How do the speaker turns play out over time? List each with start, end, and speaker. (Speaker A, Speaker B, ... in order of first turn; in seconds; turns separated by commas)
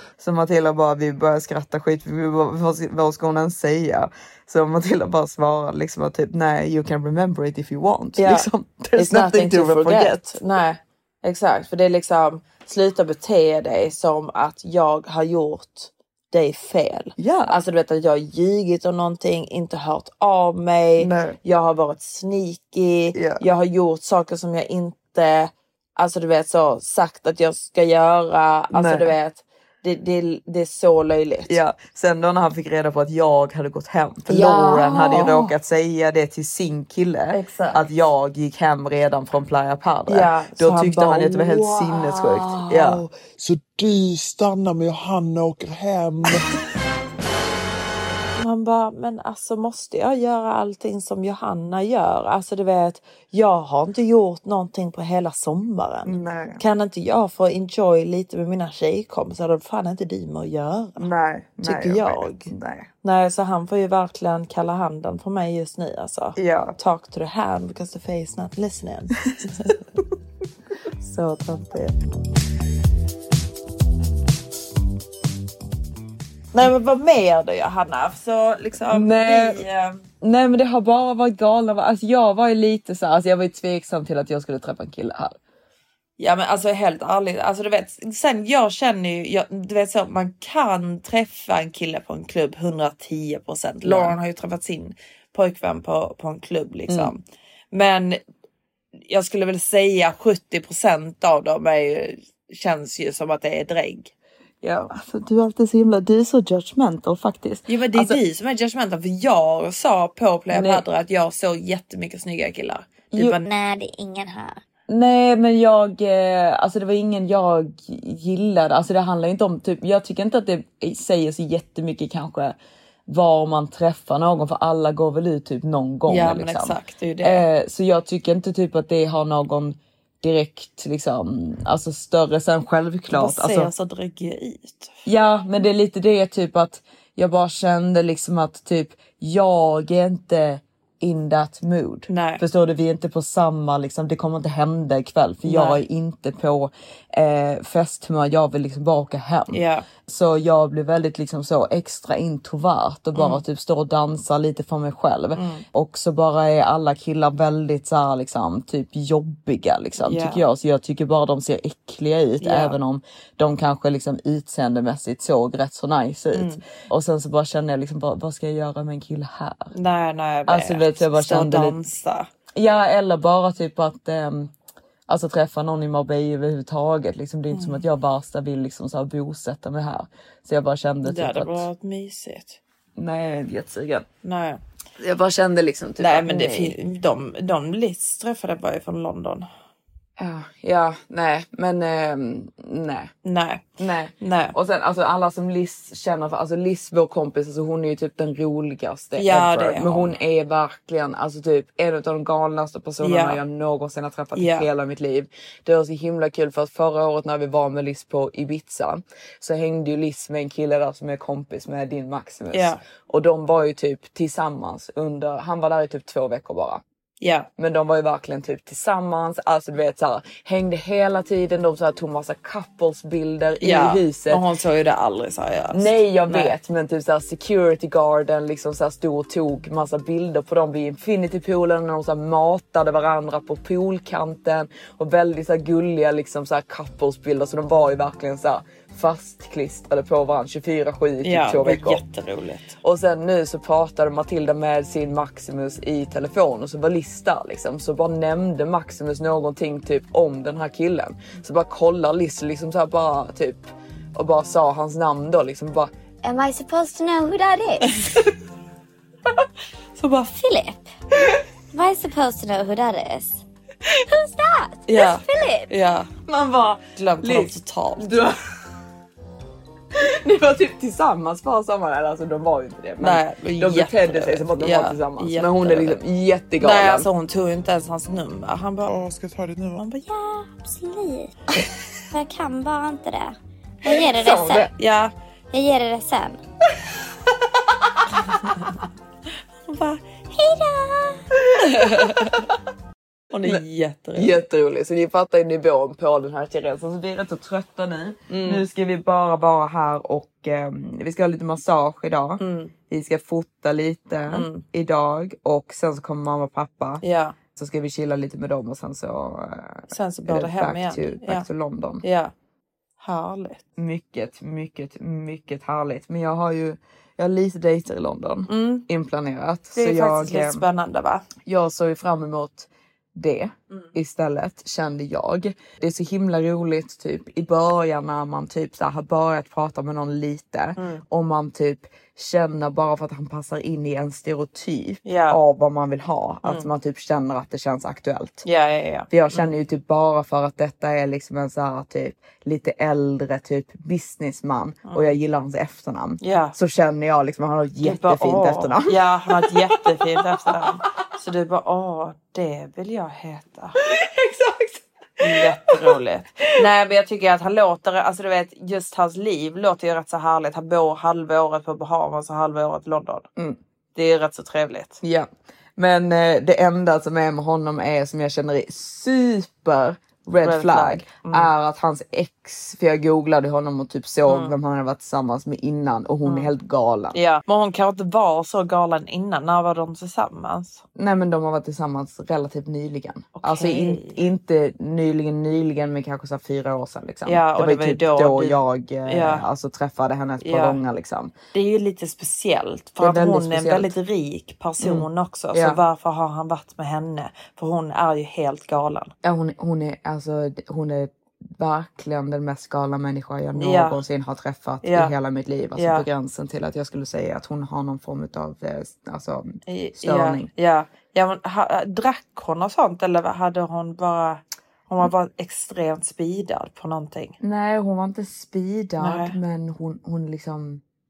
Speaker A: 0.2-10.4, Speaker B: 8.2-31.6, Speaker A: 17.2-17.6, Speaker A: 21.0-21.4, Speaker A: 23.1-23.4, Speaker A: 28.7-29.1, Speaker A: 31.5-43.0, Speaker B: 34.3-35.5, Speaker B: 37.3-37.9, Speaker B: 40.1-43.0, Speaker C: 43.1-46.5, Speaker B: 48.4-61.1, Speaker A: 56.1-56.6, Speaker A: 61.0-62.9, Speaker B: 61.6-69.8, Speaker A: 66.4-66.8, Speaker B: 71.0-72.0, Speaker B: 76.5-80.0, Speaker A: 78.9-79.6, Speaker A: 80.2-85.4, Speaker B: 86.2-98.2, Speaker A: 93.8-94.2, Speaker A: 96.9-97.1, Speaker B: 99.1-104.1, Speaker A: 104.6-108.2, Speaker B: 107.7-113.5, Speaker A: 110.5-110.8, Speaker A: 113.1-113.4, Speaker D: 113.5-114.6, Speaker A: 114.9-122.6, Speaker A: 123.1-133.7, Speaker B: 126.1-127.4, Speaker B: 133.1-135.0, Speaker A: 135.1-169.7, Speaker B: 142.1-142.4, Speaker B: 145.4-145.8, Speaker B: 149.5-149.9, Speaker B: 153.2-153.4, Speaker B: 155.3-155.7, Speaker B: 160.0-160.4, Speaker B: 162.4-162.8, Speaker B: 166.3-166.6, Speaker B: 169.7-172.3, Speaker A: 170.5-171.8, Speaker A: 172.5-174.5, Speaker A: 175.1-181.7, Speaker B: 177.5-177.8, Speaker B: 181.0-182.6, Speaker A: 183.0-184.1, Speaker B: 184.2-184.6, Speaker A: 185.0-186.8, Speaker B: 186.0-189.5, Speaker A: 190.2-193.1, Speaker B: 193.2-193.7, Speaker A: 193.8-216.8, Speaker B: 194.2-194.6, Speaker B: 199.2-200.1, Speaker B: 203.0-203.4, Speaker B: 204.3-204.7, Speaker B: 212.5-212.8, Speaker B: 217.2-217.5, Speaker A: 217.6-224.4, Speaker B: 223.6-226.5, Speaker A: 225.7-242.0, Speaker B: 241.2-242.8, Speaker A: 242.8-255.9, Speaker D: 256.2-258.1, Speaker B: 260.0-260.3, Speaker D: 260.2-260.9, Speaker D: 261.7-263.4, Speaker D: 264.0-265.7, Speaker B: 264.9-266.1, Speaker A: 266.3-268.4, Speaker B: 267.0-268.1, Speaker A: 269.9-277.1, Speaker B: 273.0-276.0, Speaker B: 276.6-278.9, Speaker C: 278.9-279.8, Speaker D: 280.1-281.4, Speaker D: 282.1-284.7, Speaker A: 283.9-284.7, Speaker B: 284.5-285.1, Speaker D: 285.5-286.4, Speaker B: 289.7-290.0, Speaker D: 290.3-291.3, Speaker A: 291.6-292.4, Speaker B: 291.6-292.4, Speaker B: 293.3-294.3, Speaker A: 294.1-307.0, Speaker B: 298.3-298.6, Speaker B: 302.4-302.7, Speaker B: 304.3-304.6, Speaker B: 307.0-307.4, Speaker A: 307.6-312.1, Speaker B: 309.9-311.5, Speaker B: 312.0-312.3, Speaker B: 313.0-313.6, Speaker A: 313.8-320.6, Speaker B: 318.5-318.9, Speaker B: 319.8-321.3, Speaker A: 321.4-338.5, Speaker B: 330.8-331.0, Speaker B: 335.1-335.4, Speaker B: 336.4-336.7, Speaker B: 338.4-339.5, Speaker A: 339.1-350.6, Speaker B: 344.9-345.2, Speaker B: 346.2-346.6, Speaker B: 347.8-353.8, Speaker A: 353.8-356.6, Speaker B: 355.2-363.3, Speaker B: 363.9-365.0, Speaker A: 365.0-377.2, Speaker B: 370.4-371.5, Speaker B: 374.3-374.6, Speaker B: 376.2-376.5, Speaker B: 377.1-380.8, Speaker A: 380.9-391.3, Speaker B: 383.4-384.2, Speaker B: 387.3-389.4, Speaker B: 390.4-390.8, Speaker B: 391.5-399.1, Speaker A: 393.0-393.9, Speaker A: 394.8-395.8, Speaker A: 399.2-410.5, Speaker B: 403.6-404.0, Speaker B: 404.8-405.1, Speaker B: 405.8-406.1, Speaker B: 409.7-417.4, Speaker A: 417.4-420.8, Speaker B: 419.0-419.4